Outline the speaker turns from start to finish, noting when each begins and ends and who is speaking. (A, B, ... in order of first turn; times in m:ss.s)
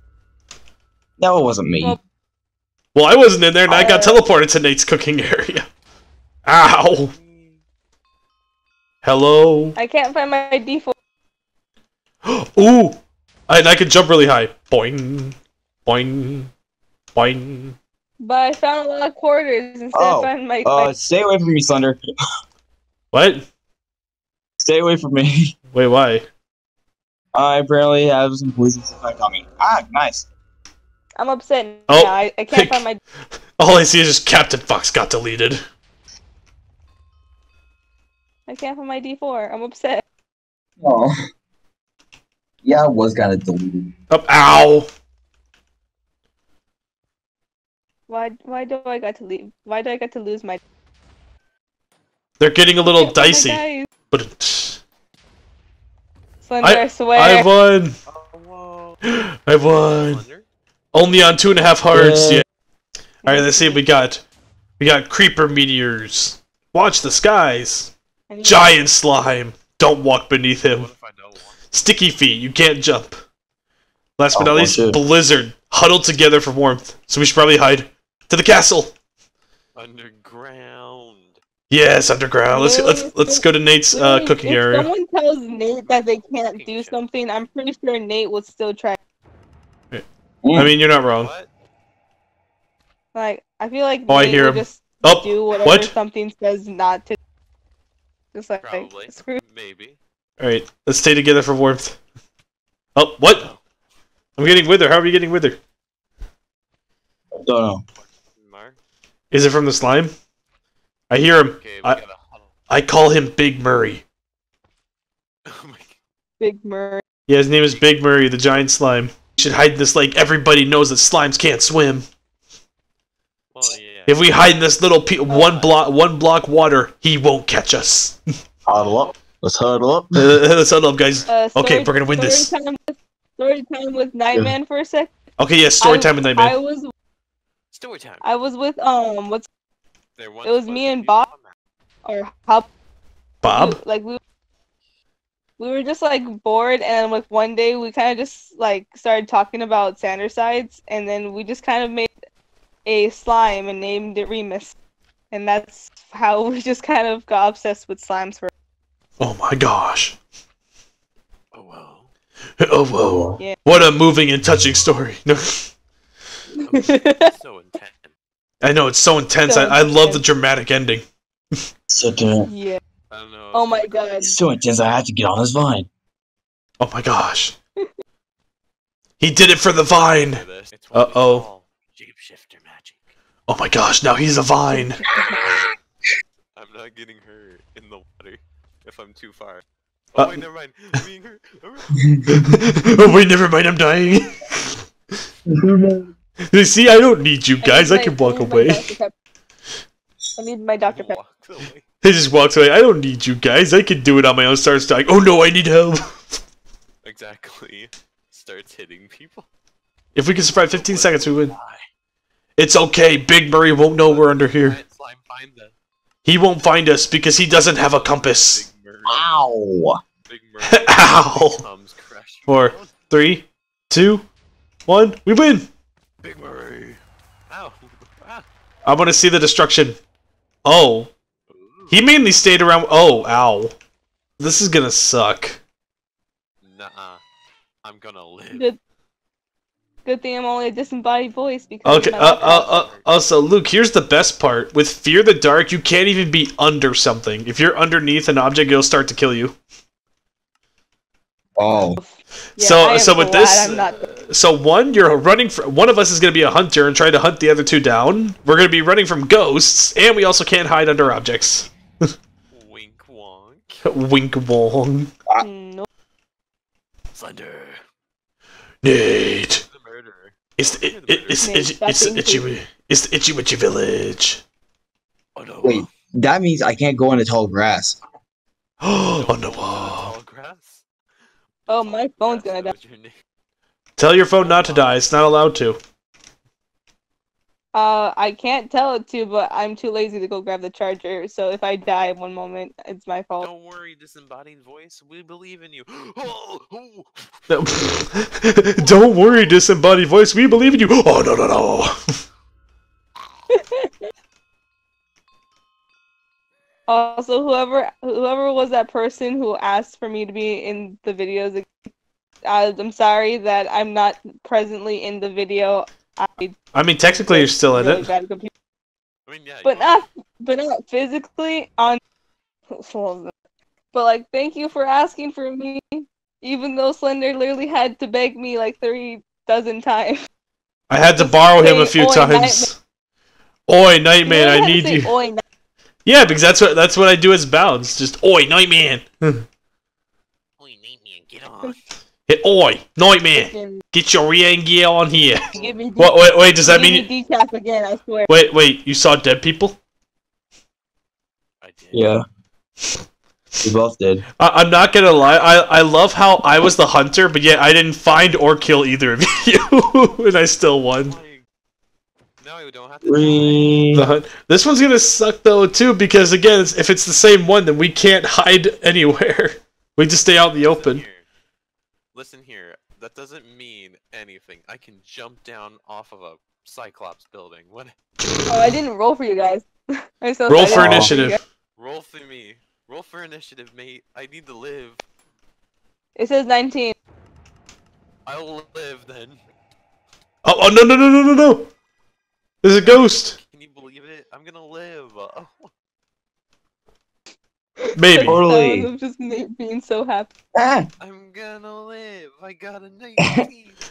0:01.2-0:02.0 A
0:02.9-0:05.7 B
0:03.7-0:04.2 A
0:06.4-0:07.1 B
0:06.9-0:07.6 C
0:09.0-0:09.8 B
0:09.8-0:10.9 D
0:12.2-0:16.5 B
0:17.1-0:17.8 B
0:18.2-0:21.0 D
0:19.9-0:22.0 A
0:23.1-0:23.5 B
0:24.6-0:25.5 A
0:25.7-0:26.3 B
0:27.3-0:30.3 A
0:31.2-0:33.0 D
0:31.9-0:32.8 B
0:33.6-0:35.6 B
0:38.5-0:40.0 D
0:40.8-0:41.1 A
0:42.6-0:43.9 A
0:44.1-0:44.9 B
0:48.1-0:50.6 D
0:52.4-0:54.8 B
0:52.8-0:53.9 D
0:56.4-0:57.5 D
0:56.6-0:58.0 B
0:58.1-0:59.0 C
0:59.1-1:00.2 B
0:59.6-1:00.4 C
1:00.9-1:02.4 B
1:01.9-1:02.4 A
1:03.2-1:03.8 D
1:03.2-1:04.2 B
1:04.8-1:07.9 B
1:08.3-1:08.7 D
1:08.4-1:10.9 B
1:10.7-1:11.6 C
1:11.7-1:13.2 B
1:14.2-1:18.9 B
1:14.3-1:15.0 A
1:19.8-1:21.4 C
1:21.7-1:24.9 B
1:22.5-1:29.0 D
1:25.8-1:27.0 C
1:29.9-1:31.3 B
1:30.4-1:30.7 A
1:31.1-1:31.5 C
1:33.1-1:37.2 D
1:34.1-1:35.9 B
1:38.3-1:39.4 D
1:38.6-1:40.0 C
1:40.4-1:42.0 B
1:43.0-1:43.5 B
1:43.3-1:43.6 C
1:44.4-1:45.6 B
1:47.3-1:47.8 A
1:48.0-1:48.8 C
1:49.3-1:50.1 B
1:51.1-1:52.0 B
1:51.6-1:52.5 C
1:52.7-1:54.0 B
1:55.4-1:56.0 C
1:56.4-1:57.0 D
1:57.3-2:02.1 B
1:57.6-1:57.9 C
2:03.5-2:04.4 C
2:04.1-2:08.2 B
2:05.3-2:05.7 D
2:08.6-2:10.3 A
2:08.7-2:09.1 C
2:10.2-2:12.5 B
2:11.1-2:11.4 C
2:11.3-2:15.1 D
2:15.4-2:16.6 B
2:15.8-2:16.9 D
2:17.7-2:18.3 C
2:18.2-2:19.5 D
2:20.2-2:21.5 C
2:20.4-2:21.3 D
2:22.0-2:22.7 D
2:23.4-2:23.8 B
2:23.4-2:24.2 D
2:25.6-2:32.1 D
2:32.8-2:34.8 D
2:35.3-2:38.5 D
2:39.2-2:40.1 B
2:41.5-2:42.1 C
2:42.6-2:45.7 B
2:43.0-2:43.4 A
2:46.6-2:48.1 C
2:46.8-2:47.2 D
2:48.6-2:51.0 B
2:49.4-2:50.2 D
2:51.9-2:52.5 A
2:52.4-2:52.8 D
2:53.1-2:53.9 C
2:53.5-2:54.3 D
2:54.2-2:55.9 A
2:56.8-2:57.6 B
2:59.2-3:01.4 B
3:00.2-3:03.1 C
3:03.5-3:05.0 B
3:05.0-3:05.3 D
3:06.5-3:12.2 C
3:12.1-3:12.4 A
3:12.3-3:14.8 B
3:15.5-3:16.1 A
3:16.5-3:18.9 B
3:17.6-3:19.2 D
3:20.4-3:21.2 D
3:20.9-3:21.9 C
3:22.0-3:26.2 B
3:27.0-3:29.5 C
3:30.1-3:31.5 B
3:30.5-3:31.9 C
3:32.6-3:34.8 B
3:34.0-3:35.7 C
3:36.2-3:38.6 B
3:37.6-3:39.3 C
3:39.1-3:40.0 A
3:40.3-3:43.0 C
3:40.6-3:41.6 B
3:42.5-3:44.2 B
3:44.9-3:45.7 B
3:46.2-3:48.4 C
3:48.8-3:50.0 B
3:50.6-3:51.1 B
3:51.5-3:52.0 C
3:51.9-3:53.7 B
3:54.4-3:55.6 B
3:56.6-3:57.2 C
3:57.8-3:58.7 C
4:00.0-4:02.7 D
4:01.8-4:09.6 B
4:02.5-4:03.1 C
4:11.6-4:12.0 A
4:12.0-4:14.0 D
4:12.6-4:22.1 B
4:22.5-4:23.8 C
4:23.8-4:25.1 B
4:25.4-4:25.8 D
4:27.1-4:27.8 C
4:28.8-4:29.6 B
4:29.6-4:31.5 C
4:30.6-4:34.4 B
4:31.4-4:32.4 D
4:35.4-4:35.9 C
4:35.6-4:38.0 A
4:38.8-4:40.1 B
4:39.0-4:40.8 C
4:41.6-4:43.1 C
4:41.7-4:42.7 D
4:44.0-4:45.8 B
4:44.3-4:45.0 C
4:47.7-4:53.5 D
4:53.4-4:57.3 C
4:57.5-5:02.0 B
4:58.8-4:59.6 C
5:03.5-5:03.9 D
5:06.9-5:11.7 D
5:12.4-5:16.5 D
5:16.7-5:18.1 B
5:17.3-5:18.5 D
5:19.3-5:20.0 C
5:19.6-5:22.0 D
5:22.7-5:23.3 D
5:23.9-5:30.2 D
5:30.9-5:32.8 B
5:31.2-5:32.7 D
5:33.7-5:35.1 B
5:34.2-5:35.4 D
5:36.0-5:39.4 B
5:40.6-5:41.8 C
5:42.3-5:47.0 B
5:43.5-5:43.8 D
5:45.5-5:45.8 C
5:45.5-5:48.3 D
5:48.3-5:49.8 B
5:51.6-5:52.1 C
5:51.9-5:52.2 A
5:53.6-5:54.2 A
5:54.4-6:01.2 B
6:00.9-6:01.4 C
6:02.4-6:03.9 C
6:03.0-6:04.1 A
6:03.9-6:11.0 B
6:10.6-6:11.2 C
6:12.1-6:17.9 C
6:18.5-6:21.4 D
6:20.5-6:21.4 B
6:20.7-6:21.1 A
6:21.8-6:25.0 C
6:26.2-6:27.0 D
6:28.2-6:29.4 C
6:30.4-6:31.7 B
6:32.6-6:33.4 B
6:32.8-6:35.7 C
6:37.8-6:40.3 D
6:38.0-6:38.4 B
6:38.3-6:38.9 A
6:40.6-6:40.9 A
6:41.0-6:43.8 C